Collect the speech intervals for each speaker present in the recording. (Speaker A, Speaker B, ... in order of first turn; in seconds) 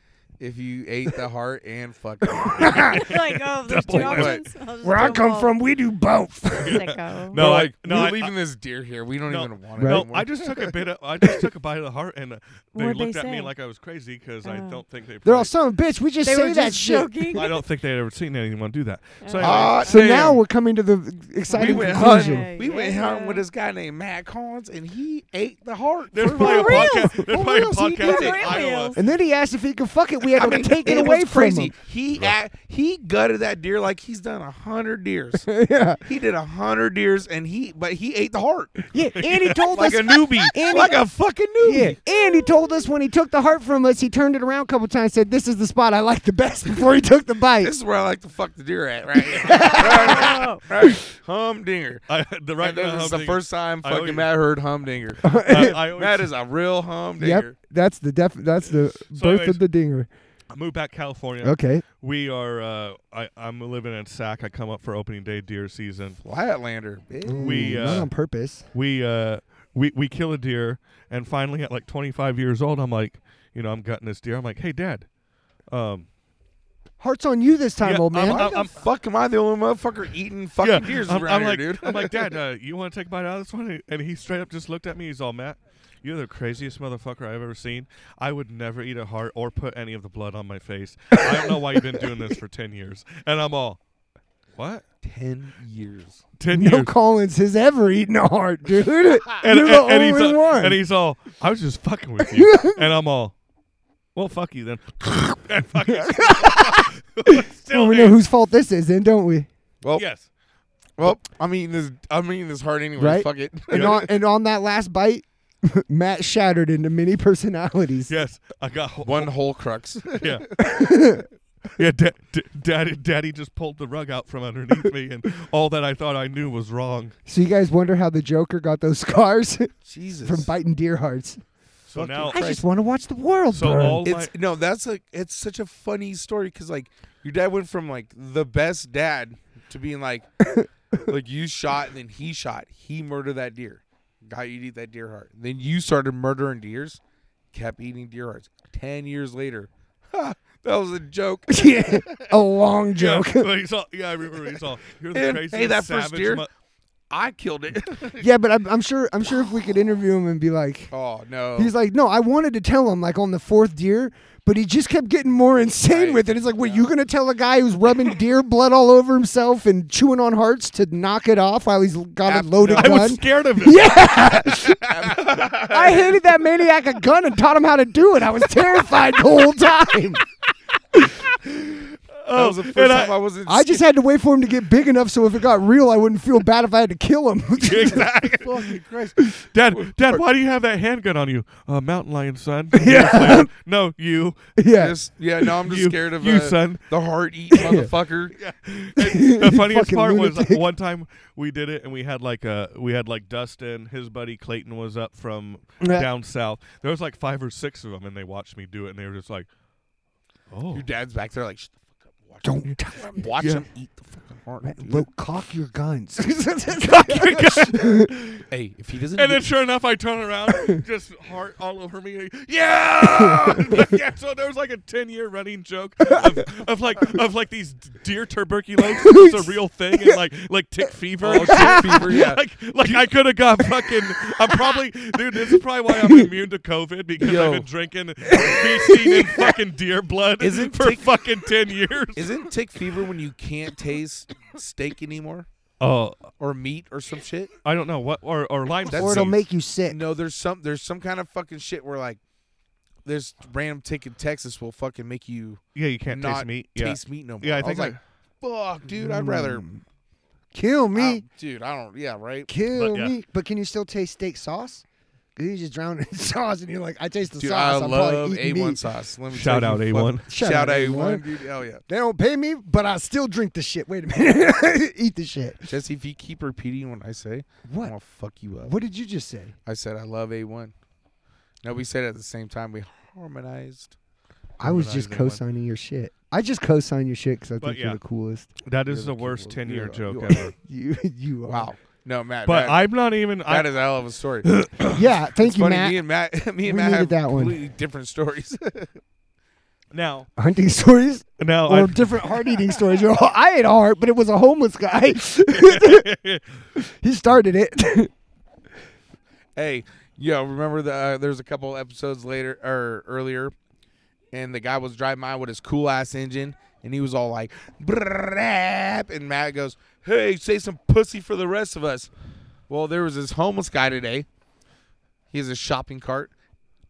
Speaker A: 0.4-2.9, 3.9-4.4, 7.3-10.7, 19.4-20.4, 21.5-28.6, 30.3-35.5, 36.0-38.9, 39.7-42.0, 47.6-52.0, 52.6-57.5, 66.2-68.1, 78.2-82.2, 95.0-96.2, 111.0-114.0, 119.0-120.4, 129.8-130.5, 131.9-132.6, 134.0-140.3, 141.1-147.0, 147.5-152.3, 155.1-156.4, 157.1-158.3, 160.9-161.7, 165.9-166.8, 172.2-173.1, 174.7-176.2, 182.3-183.8, 188.4-189.2, 189.8-190.2, 194.8-198.3, 210.7-215.1, 218.5-219.4, 231.2-232.4, 237.2-237.7, 240.4-241.1, 242.1-245.5, 246.4-247.5, 248.9-249.3, 249.9-252.2, 253.0-259.6, 260.9-262.5, 267.4-271.8, 275.7-278.8, 279.6-280.7, 281.6-283.9, 288.9-290.4, 291.4-292.8, 293.5-294.5, 295.4-298.9, 309.6-313.5, 314.3-322.1, 322.7-324.2, 325.3-326.3
Speaker B: 2.3-3.1, 4.8-6.8, 9.8-10.1, 15.2-17.4, 19.8-22.5, 28.9-31.7, 35.4-36.0, 38.9-41.0, 41.6-47.7, 49.3-50.9, 55.2-55.8, 57.2-60.1, 61.4-61.8, 67.2-68.7, 77.0-78.5, 96.5-100.8, 102.2-102.8, 105.9-109.5, 113.0-118.1, 120.6-121.2, 127.2-131.4, 132.3-134.1, 151.5-153.5, 158.2-160.9, 161.5-180.2, 183.4-188.6, 192.7-193.5, 194.6-194.9, 197.6-197.9, 199.0-200.6, 205.8-206.1, 212.4-213.3, 214.6-218.1, 223.2-223.6, 226.1-226.4, 228.8-230.2, 231.5-232.1, 235.3-236.3, 238.3-239.5, 248.9-250.0, 258.9-259.8, 260.5-261.2, 262.5-264.8, 265.4-268.8, 270.3-271.2, 271.9-275.7, 277.6-277.9, 278.6-279.6, 284.6-288.5, 290.2-291.7, 294.9-296.0, 296.6-297.6, 300.4-306.1, 306.7-308.1
Speaker C: 2.7-4.4, 6.6-8.3, 9.3-15.5, 17.3-20.4, 26.1-29.0, 39.2-39.7, 52.1-54.3, 55.4-56.3, 59.1-59.6, 60.5-66.2, 67.4-68.1, 68.7-75.1, 75.7-76.0, 77.8-78.8, 80.6-93.8, 94.5-94.8, 96.4-96.9, 99.4-103.3, 104.1-108.2, 109.9-110.2, 113.7-114.0, 118.1-119.3, 120.2-120.7, 121.8-127.1, 131.9-132.5, 133.5-134.3, 152.9-156.5, 172.6-174.3, 180.9-183.2, 187.6-188.8, 189.3-194.4, 195.5-196.9, 198.3-209.5, 210.5-210.8, 213.4-213.6, 216.8-218.4, 219.1-242.5, 245.8-246.3, 247.6-249.4, 255.7-258.0, 262.7-263.1, 269.3-270.3, 284.6-285.4, 287.6-288.0, 288.6-290.5, 292.4-293.8, 294.4-295.0, 299.9-300.3, 301.4-302.5, 305.5-306.4
Speaker D: 2.9-5.6, 6.6-7.4, 12.7-13.5, 14.4-14.8, 16.2-17.5, 19.2-19.9, 21.5-23.4, 26.3-27.2, 28.0-29.0, 49.7-50.6